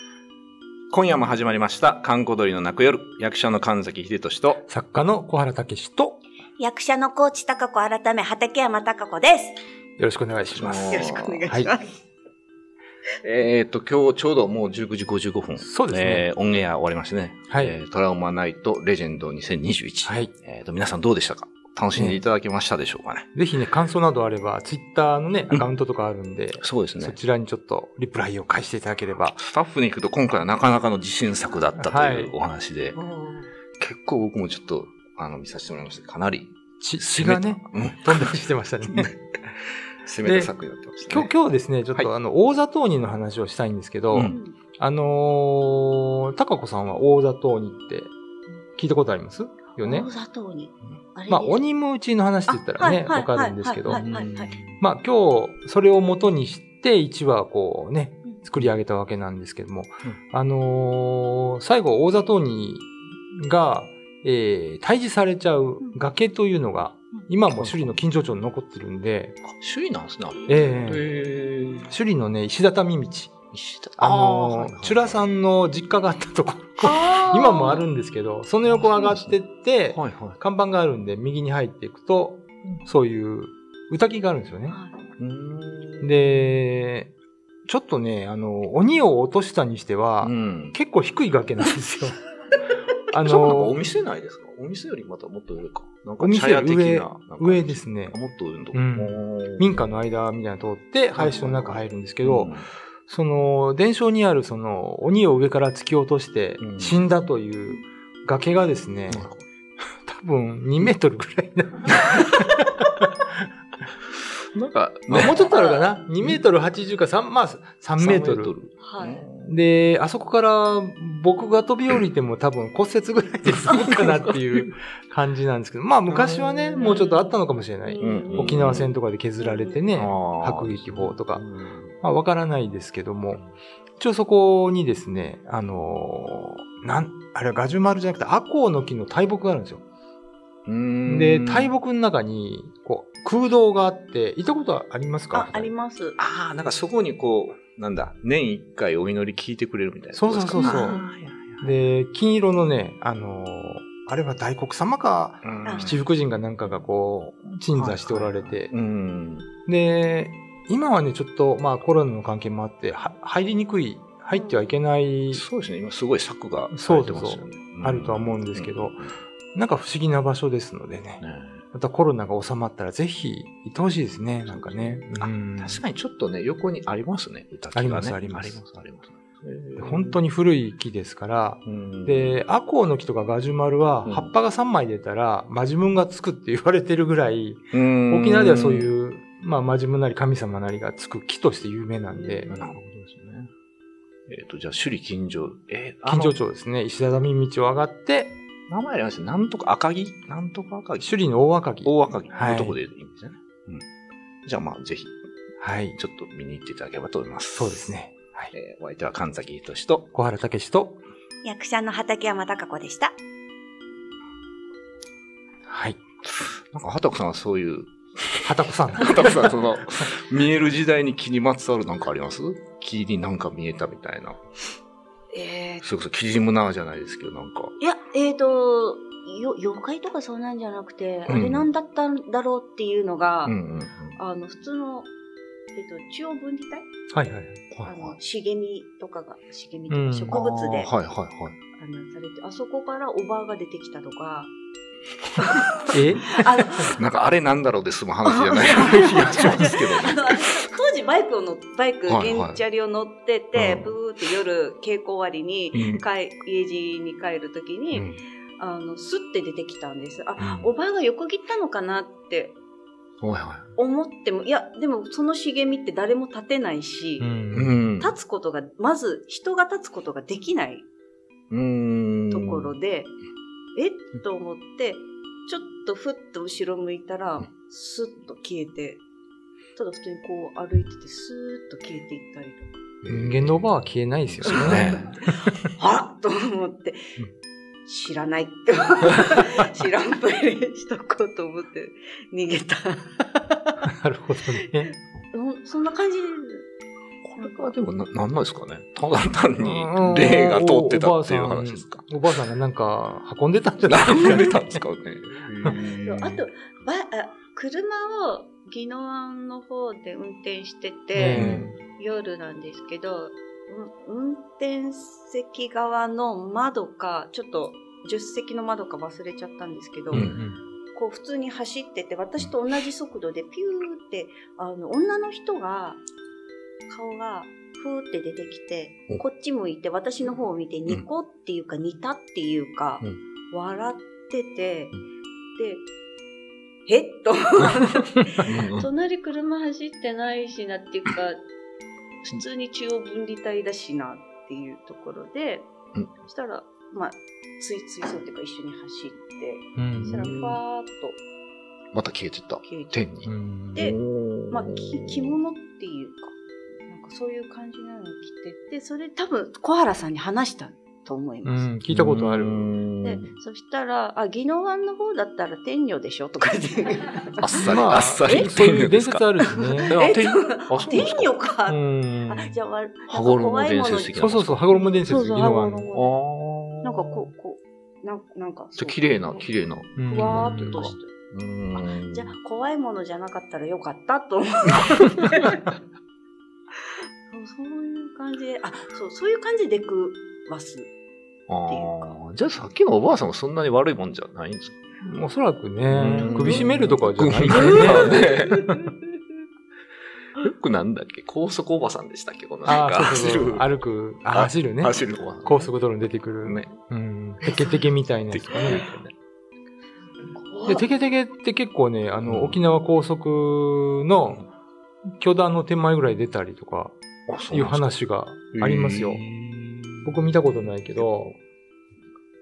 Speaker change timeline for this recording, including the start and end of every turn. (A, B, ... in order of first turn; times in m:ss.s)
0:00.9-0:04.6 A
0:04.7-0:06.2 B
0:06.6-0:09.6 C
0:10.0-0:11.7 B
0:10.5-0:11.4 A
0:10.9-0:12.0 C
0:13.2-0:23.2 A
0:15.6-0:16.3 B
0:17.5-0:17.8 B
0:20.0-0:20.3 B
0:21.9-0:22.2 B
0:23.3-0:29.4 B
0:26.6-0:27.2 A
0:29.3-0:33.0 A
0:31.8-0:32.3 B
0:32.9-0:33.5 C
0:33.8-0:39.1 A
0:36.8-0:39.1 B
0:40.0-0:41.3 A
0:40.2-0:40.5 B
0:41.0-0:48.1 B
0:44.1-0:44.4 A
0:44.2-0:44.6 C
0:48.7-0:50.1 B
0:49.7-0:51.6 C
0:51.3-0:54.1 B
0:52.5-0:54.6 C
0:53.9-0:54.8 A
0:54.8-1:09.4 B
1:07.5-1:08.0 A
1:09.4-1:11.9 A
1:10.5-1:11.0 B
1:11.9-1:13.3 B
1:13.5-1:15.2 A
1:14.0-1:24.8 B
1:16.8-1:17.8 C
1:18.6-1:19.4 A
1:19.9-1:20.4 A
1:24.7-1:25.0 C
1:25.2-1:26.2 A
1:26.0-1:27.1 B
1:27.6-1:32.2 B
1:30.2-1:30.8 A
1:33.1-1:33.8 B
1:33.2-1:39.8 A
1:36.2-1:38.2 B
1:38.7-1:42.5 B
1:41.1-1:42.7 A
1:43.0-1:49.3 B
1:46.6-1:47.0 A
1:49.1-1:49.4 A
1:50.0-1:52.8 B
1:54.5-1:55.5 A
1:55.1-1:58.5 B
1:55.2-1:55.9 C
1:58.0-1:59.6 A
1:58.8-1:59.2 C
1:59.4-2:11.4 B
2:03.4-2:04.7 A
2:06.1-2:07.1 A
2:06.8-2:07.3 C
2:07.8-2:08.8 C
2:08.0-2:08.9 A
2:09.4-2:09.8 C
2:09.9-2:11.9 A
2:12.0-2:13.4 B
2:14.0-2:19.8 B
2:20.6-2:21.7 A
2:21.0-2:25.7 B
2:25.3-2:26.2 C
2:26.2-2:31.6 A
2:30.1-2:31.0 B
2:30.6-2:31.0 C
2:31.6-2:38.7 B
2:35.4-2:36.0 A
2:35.6-2:36.0 C
2:36.6-2:36.9 A
2:37.7-2:39.5 A
2:39.6-2:45.4 B
2:44.3-2:44.7 C
2:45.3-2:49.2 A
2:46.7-2:49.0 B
2:49.5-2:55.8 B
2:51.2-2:51.6 A
2:54.5-3:00.2 A
2:57.7-2:58.6 B
2:59.8-3:12.5 B
3:01.6-3:02.4 A
3:04.0-3:04.3 A
3:07.7-3:08.9 A
3:12.1-3:12.7 C
3:12.5-3:13.5 A
3:14.3-3:16.4 A
3:16.0-3:18.3 B
3:18.7-3:21.1 A
3:21.0-3:22.8 B
3:21.8-3:23.8 A
3:24.4-3:25.1 A
3:25.6-3:26.0 B
3:26.0-3:27.9 A
3:27.6-3:28.5 B
3:28.5-3:30.1 A
3:30.1-3:31.0 B
3:31.4-3:33.1 C
3:35.7-3:36.0 B
3:36.7-3:44.4 A
3:38.4-3:39.4 B
3:45.3-3:45.8 C
3:45.8-3:47.7 A
3:47.8-3:53.6 C
3:51.3-3:51.7 A
3:53.4-3:54.2 A
3:54.2-3:55.1 C
3:55.7-3:56.9 C
3:57.1-3:57.7 B
3:57.7-3:58.2 A
3:57.8-4:00.9 C
3:59.9-4:00.3 B
4:00.3-4:01.6 A
4:01.8-4:04.5 C
4:05.4-4:07.0 C
4:05.9-4:06.4 B
4:06.9-4:10.5 A
4:08.2-4:22.6 C
4:12.1-4:12.6 A
4:13.5-4:13.9 A
4:15.7-4:16.0 A
4:17.9-4:18.2 A
4:23.2-4:23.7 A
4:23.8-4:27.3 C
4:27.2-4:27.8 B
4:27.5-4:28.1 A
4:28.0-4:30.8 C
4:31.5-4:32.7 A
4:32.3-4:33.1 C
4:33.7-4:39.0 C
4:39.8-4:42.8 C
4:43.0-4:43.8 A
4:43.1-4:45.3 B
4:44.3-4:45.1 A
4:44.5-4:45.1 C
4:45.8-4:47.0 C
4:47.9-4:53.2 C
4:53.8-4:54.9 B
4:54.8-4:56.7 C
4:57.2-5:02.1 A
4:59.6-5:04.6 B
5:03.8-5:06.4 A
5:06.0-5:20.3 C
5:11.1-5:11.7 B
5:11.3-5:11.7 A
5:20.1-5:20.6 B
5:20.1-5:20.4 A
5:20.9-5:26.0 C
5:26.9-5:34.9 C
5:35.6-5:35.8 C
5:36.9-5:41.4 C
5:38.4-5:38.9 A
5:42.2-5:45.7 C
5:46.2-5:51.2 C
5:49.8-5:50.2 B
5:50.0-5:50.6 A
5:51.9-5:55.3 A
5:52.6-5:53.1 C
5:53.2-5:53.9 B
5:54.5-5:56.3 C
5:56.8-6:01.7 C
6:01.4-6:02.7 B
6:01.9-6:03.3 A
6:03.0-6:08.5 C
6:07.4-6:09.2 A
6:07.6-6:09.9 B
6:09.6-6:16.1 C
6:09.9-6:11.3 A
6:11.7-6:12.6 B
6:13.1-6:14.6 A
6:14.2-6:15.9 B
6:15.9-6:17.3 A
6:16.8-6:19.4 C
6:18.8-6:22.3 A
6:20.0-6:20.9 B
6:20.0-6:21.1 C
6:21.8-6:25.6 C
6:27.3-6:30.9 C
6:31.5-6:34.8 A
6:31.6-6:32.2 C
6:35.0-6:38.9 B
6:35.8-6:38.7 A
6:36.3-6:36.7 C
6:37.7-6:38.2 C
6:40.4-6:43.7 A
6:42.6-6:49.1 B
6:44.3-6:45.7 A
6:46.4-6:46.8 A
6:48.3-6:49.0 A
6:50.3-6:50.9 C
6:50.6-6:54.5 B
6:52.2-6:52.6 A
6:55.2-6:57.0 B
6:57.3-6:58.0 A
6:57.5-6:59.2 B
6:58.5-7:00.3 A
7:00.0-7:01.4 B